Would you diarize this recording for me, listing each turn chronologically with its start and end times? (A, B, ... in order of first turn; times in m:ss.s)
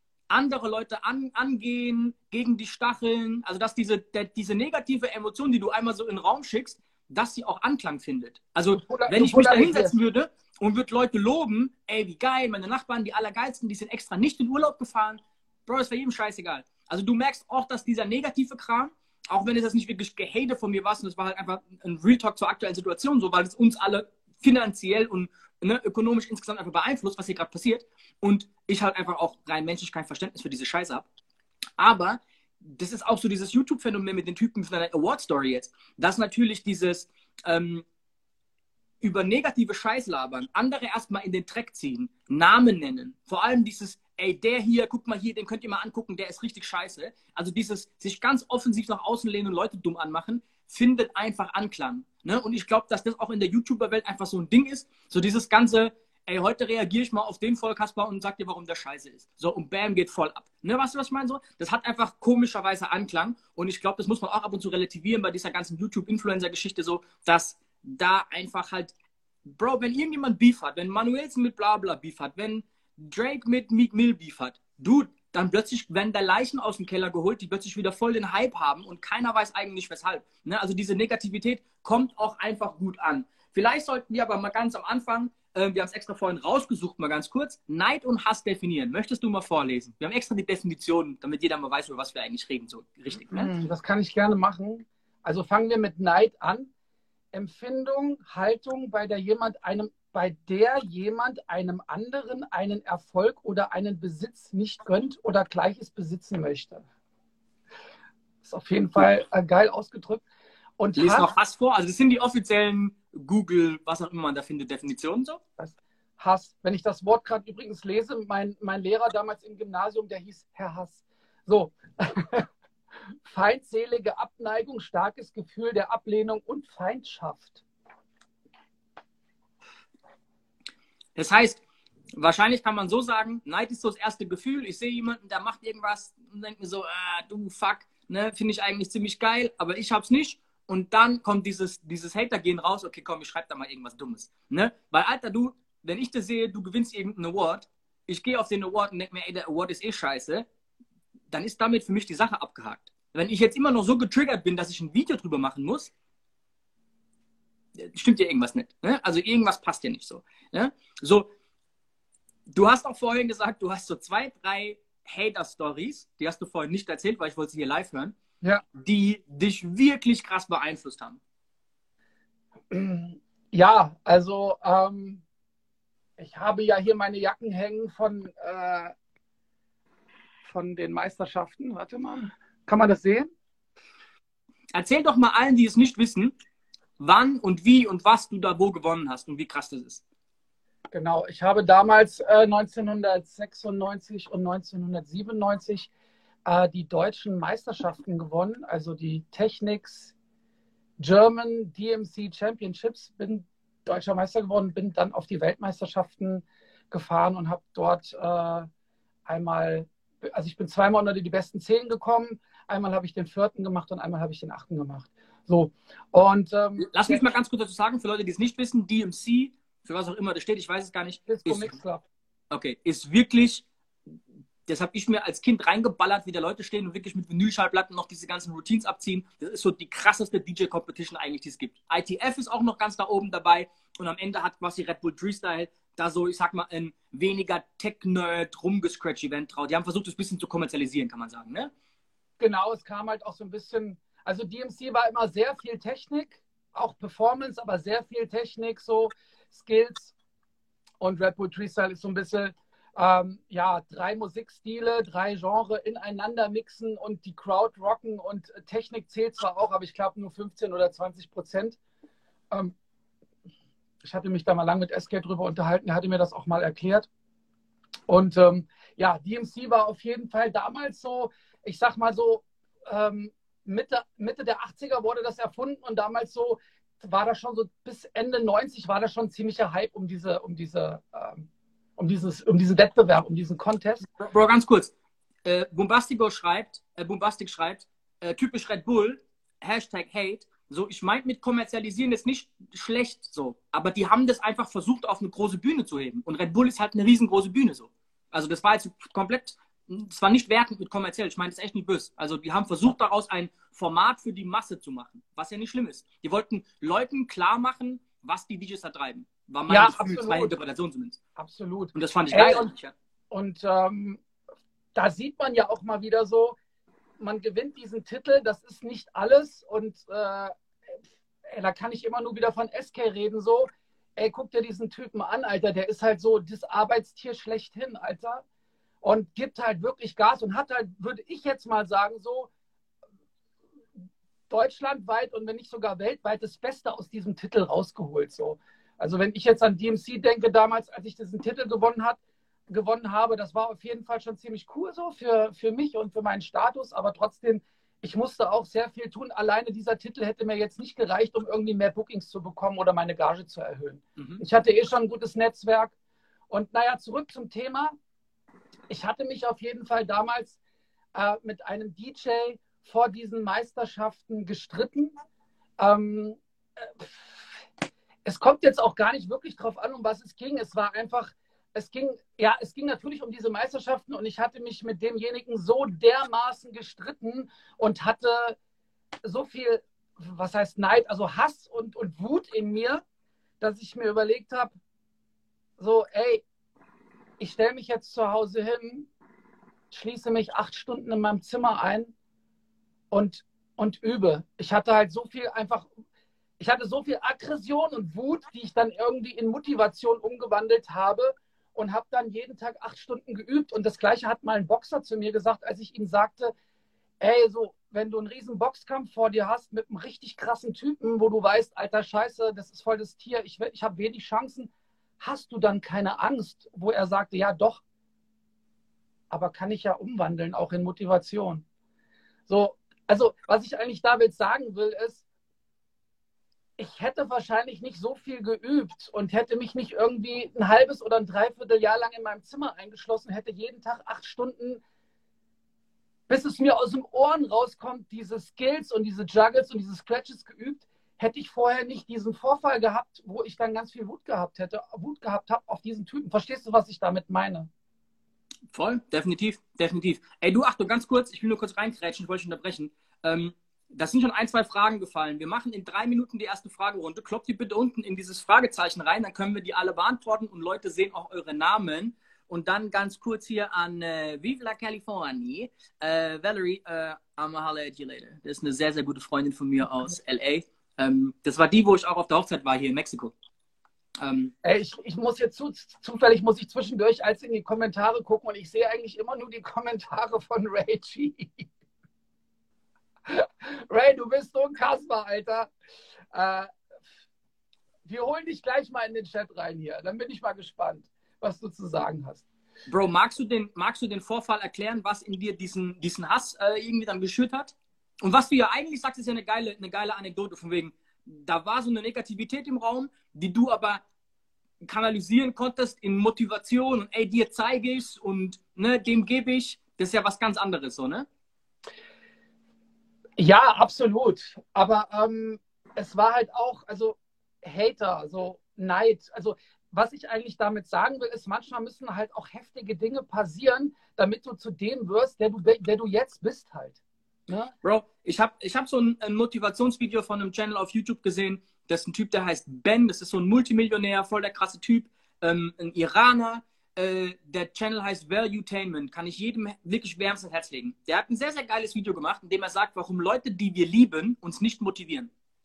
0:00.3-0:31.1 A
0:08.7-0:10.0 B
0:31.8-0:37.8 A
0:39.0-1:09.0 A
1:09.5-1:33.5 A
1:33.3-1:36.7 B
1:37.3-1:46.8 B
1:48.4-1:50.2 B
1:50.8-1:51.3 B
1:51.0-1:55.4 A
1:55.6-2:02.5 B
2:03.2-2:07.6 B
2:11.2-2:30.5 A
2:31.3-2:35.9 A
2:37.8-2:41.3 A
2:42.5-2:48.2 A
2:48.7-2:51.2 A
2:52.7-2:55.2 B
2:56.2-2:58.9 B
3:00.4-3:03.3 B
3:04.7-3:06.4 A
3:07.0-3:10.0 A
3:10.9-3:15.9 B
3:16.5-3:20.1 B
3:21.0-3:28.7 B
3:29.3-3:37.3 B
3:36.8-3:41.8 A
3:41.3-3:42.0 B
3:42.5-3:43.7 A
3:44.7-4:01.7 A
4:02.4-4:10.2 B
4:11.0-4:21.8 B
4:24.0-4:27.1 B
4:28.1-4:44.1 B
4:44.2-4:44.9 A
4:45.4-5:11.2 A
5:09.7-5:10.5 B
5:11.4-5:12.7 B
5:11.9-5:12.9 A
5:13.3-5:14.2 B
5:15.0-5:16.6 B
5:17.2-5:20.5 B
5:21.4-5:28.4 B
5:29.0-5:32.5 B
5:34.5-5:56.0 B
5:54.2-5:54.4 A
5:56.5-5:58.0 B
5:58.9-6:00.6 B
6:01.2-6:05.2 B
6:05.8-6:07.6 B
6:08.2-6:18.6 B
6:19.2-6:23.0 B
6:23.6-6:24.8 B
6:25.8-6:26.4 B
6:27.4-6:29.1 B
6:29.9-6:32.1 B
6:33.1-6:35.9 B
6:36.6-6:46.5 B
6:47.2-6:57.8 B
6:59.3-7:01.6 B
7:02.5-7:05.2 B
7:06.8-7:14.8 B
7:16.3-7:27.7 B
7:28.7-7:53.3 A
7:54.2-7:54.5 A
7:54.6-8:01.7 B
8:03.2-8:05.7 B
8:06.3-8:06.7 B
8:08.0-8:12.4 B
8:12.9-8:24.0 A
8:24.8-8:31.3 A
8:33.4-8:47.7 B
8:47.8-9:05.3 A